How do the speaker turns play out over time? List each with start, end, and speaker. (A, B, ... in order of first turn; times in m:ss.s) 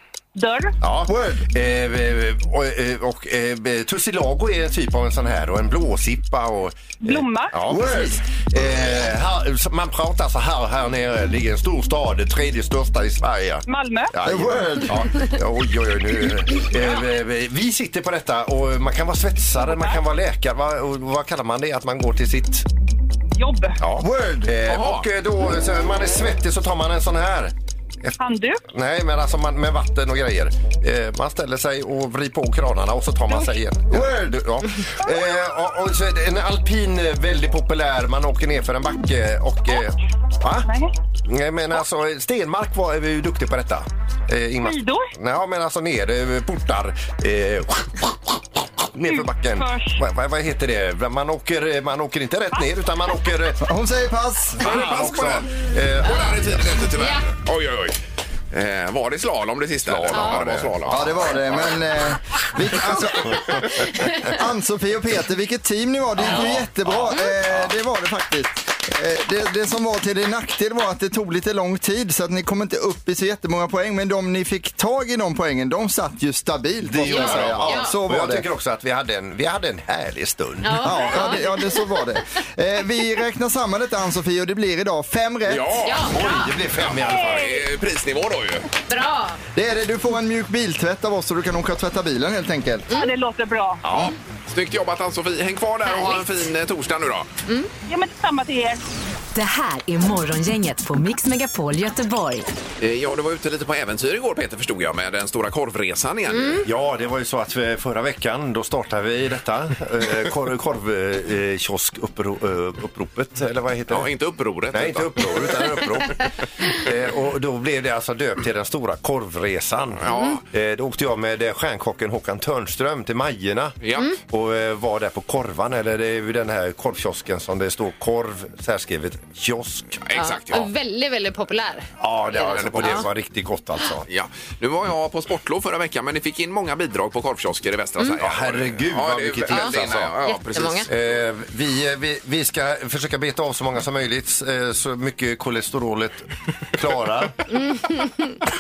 0:00.4-0:00.8 A
0:00.8-0:22.7 B
0:01.1-0:01.5 C
0:07.0-0:07.6 A
0:07.6-0:08.2 C
0:13.7-0:14.1 A
0:14.2-0:15.1 C
0:23.4-0:23.8 A
0:23.8-0:40.7 B
0:23.9-0:24.6 C
0:24.7-0:25.1 D
0:28.2-0:28.6 A
0:33.9-0:34.4 C
0:40.6-0:40.9 A
0:41.2-0:53.6 B
0:44.6-0:45.1 A
0:49.0-0:50.0 A
0:53.6-0:54.8 C
0:54.6-0:56.6 B
0:54.6-0:58.0 D
0:57.0-0:57.2 E
0:58.5-1:01.6 D
0:59.8-1:01.2 B
1:00.1-1:00.4 E
1:00.9-1:18.5 C
1:03.2-1:03.9 B
1:03.7-1:04.3 E
1:06.2-1:07.6 B
1:16.8-1:21.2 B
1:17.0-1:18.0 E
1:20.6-1:22.0 E
1:20.8-1:25.8 C
1:25.5-1:26.1 D
1:25.8-1:26.5 E
1:26.1-1:27.6 B
1:26.8-1:28.7 D
1:27.0-1:27.6 A
1:28.9-1:29.4 E
1:29.6-1:32.9 C
1:32.9-1:33.8 A
1:33.9-1:37.3 D
1:35.8-1:36.3 E
1:37.9-1:38.8 A
1:39.3-1:42.5 F
1:42.8-1:46.7 D
1:46.3-1:46.6 E
1:46.6-1:54.1 B
1:53.9-1:55.9 D
1:54.7-2:10.0 B
2:00.0-2:00.4 D
2:03.8-2:04.1 D
2:10.0-2:10.7 D
2:10.2-2:13.0 E
2:12.0-2:14.1 B
2:12.3-2:13.1 D
2:14.1-2:21.2 D
2:18.2-2:20.2 B
2:19.5-2:20.9 E
2:20.9-2:27.4 B
2:27.5-2:28.4 E